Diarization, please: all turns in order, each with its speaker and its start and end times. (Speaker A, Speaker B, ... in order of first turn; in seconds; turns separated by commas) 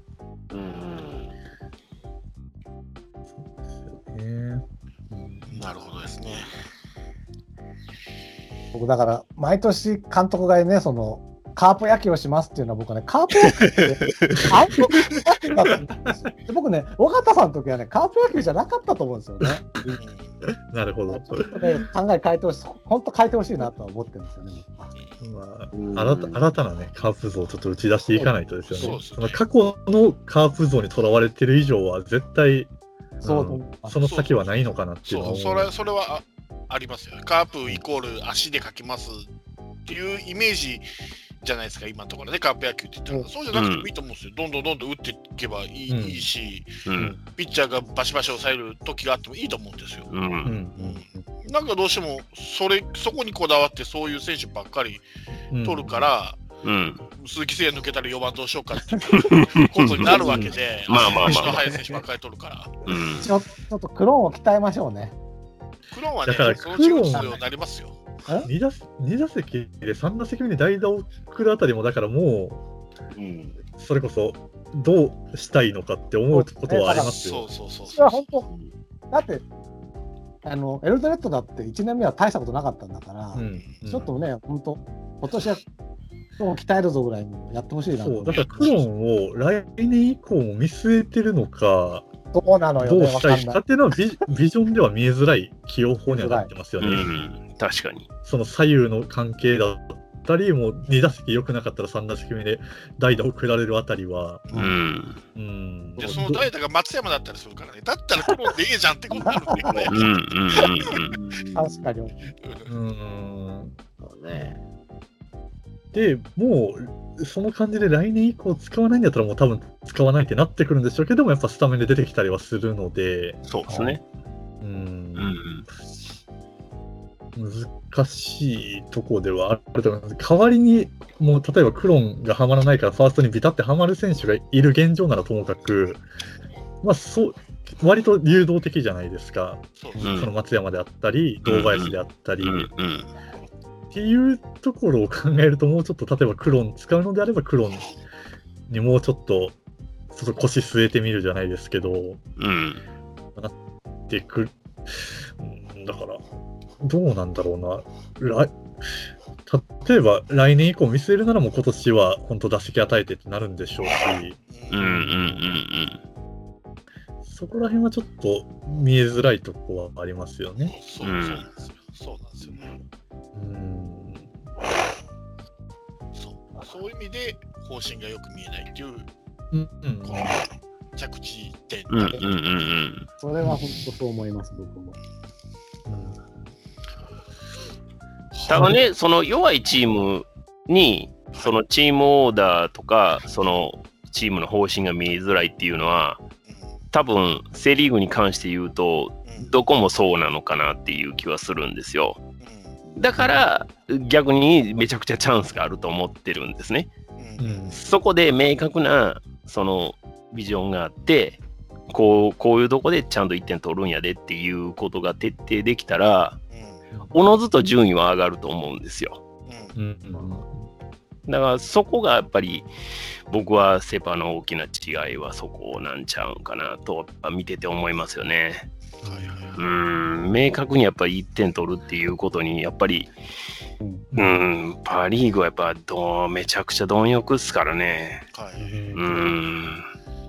Speaker A: 0.5-1.3, Speaker B: 3.3-5.6, Speaker C: 5.5-6.5, Speaker D: 8.7-19.9, Speaker C: 20.0-20.3, Speaker B: 20.4-21.8, Speaker D: 21.1-24.9, Speaker C: 24.9-25.2, Speaker B: 25.2-32.7, Speaker A: 25.7-26.4, Speaker D: 28.1-29.0, Speaker C: 28.7-29.4, Speaker B: 33.2-35.7, Speaker D: 33.2-34.0, Speaker C: 34.0-34.4, Speaker C: 35.0-39.3, Speaker C: 39.9-40.8, Speaker C: 41.4-50.1, Speaker E: 43.5-43.9, Speaker B: 45.9-46.2, Speaker E: 46.9-47.1, Speaker E: 50.1-50.6, Speaker B: 50.4-51.2, Speaker C: 50.8-55.0, Speaker B: 55.5-56.0, Speaker C: 55.6-56.4, Speaker E: 56.6-57.0, Speaker C: 57.2-62.8, Speaker E: 59.1-61.7, Speaker D: 60.2-60.5, Speaker E: 62.9-63.3, Speaker D: 63.2-65.1, Speaker C: 65.9-68.0, Speaker B: 66.2-67.4, Speaker B: 68.4-72.6, Speaker A: 73.1-73.6, Speaker B: 73.8-77.4, Speaker D: 76.3-77.1, Speaker C: 76.9-78.2, Speaker D: 77.9-78.5, Speaker D: 79.1-79.4, Speaker D: 80.4-85.6, Speaker B: 83.3-84.1, Speaker D: 86.4-88.7, Speaker B: 87.9-92.0, Speaker C: 88.3-88.8, Speaker D: 92.3-93.6, Speaker B: 92.8-97.1, Speaker D: 96.1-96.5, Speaker E: 96.8-98.1, Speaker B: 98.2-104.6, Speaker C: 104.5-104.7, Speaker E: 104.5-105.2, Speaker B: 105.3-106.4, Speaker C: 106.0-110.0, Speaker D: 106.0-106.4, Speaker A: 109.2-110.0, Speaker D: 109.2-109.6, Speaker E: 109.9-111.1, Speaker C: 110.5-111.0, Speaker A: 110.9-111.9, Speaker D: 111.5-112.2, Speaker C: 112.4-112.7, Speaker B: 112.7-113.8, Speaker A: 114.0-114.6, Speaker B: 115.9-123.9, Speaker E: 123.5-124.0, Speaker B: 124.6-125.3, Speaker E: 125.2-125.7, Speaker B: 127.3-136.0, Speaker B: 136.8-142.7, Speaker C: 139.8-140.1, Speaker E: 140.0-140.3, Speaker E: 141.4-143.1, Speaker B: 143.9-147.9, Speaker B: 148.7-149.6, Speaker B: 150.1-152.2, Speaker E: 152.4-152.8, Speaker B: 154.1-156.2, Speaker B: 156.8-158.6, Speaker B: 159.4-165.4, Speaker C: 164.5-164.9, Speaker E: 164.7-166.0, Speaker B: 167.2-170.8, Speaker C: 170.7-172.7, Speaker E: 171.0-171.4, Speaker B: 173.3-174.3, Speaker C: 176.1-179.1, Speaker B: 179.5-180.3, Speaker C: 180.0-182.2, Speaker E: 181.9-183.1, Speaker D: 183.2-184.9, Speaker B: 185.9-186.2, Speaker C: 188.3-188.8, Speaker E: 188.5-196.2, Speaker E: 196.9-202.2, Speaker C: 199.3-199.5, Speaker C: 202.4-202.8, Speaker E: 203.0-206.9, Speaker B: 203.1-203.4, Speaker C: 207.2-207.8, Speaker B: 207.4-207.8, Speaker E: 207.7-216.4, Speaker C: 216.5-216.8, Speaker E: 217.1-219.2, Speaker C: 219.5-219.7, Speaker B: 219.7-220.7, Speaker E: 221.3-222.7, Speaker E: 223.3-228.7, Speaker B: 229.0-229.5, Speaker C: 229.0-229.6, Speaker E: 229.6-233.1, Speaker B: 234.1-234.4, Speaker E: 234.1-238.2, Speaker C: 238.3-238.7, Speaker B: 238.6-239.3, Speaker E: 238.9-239.8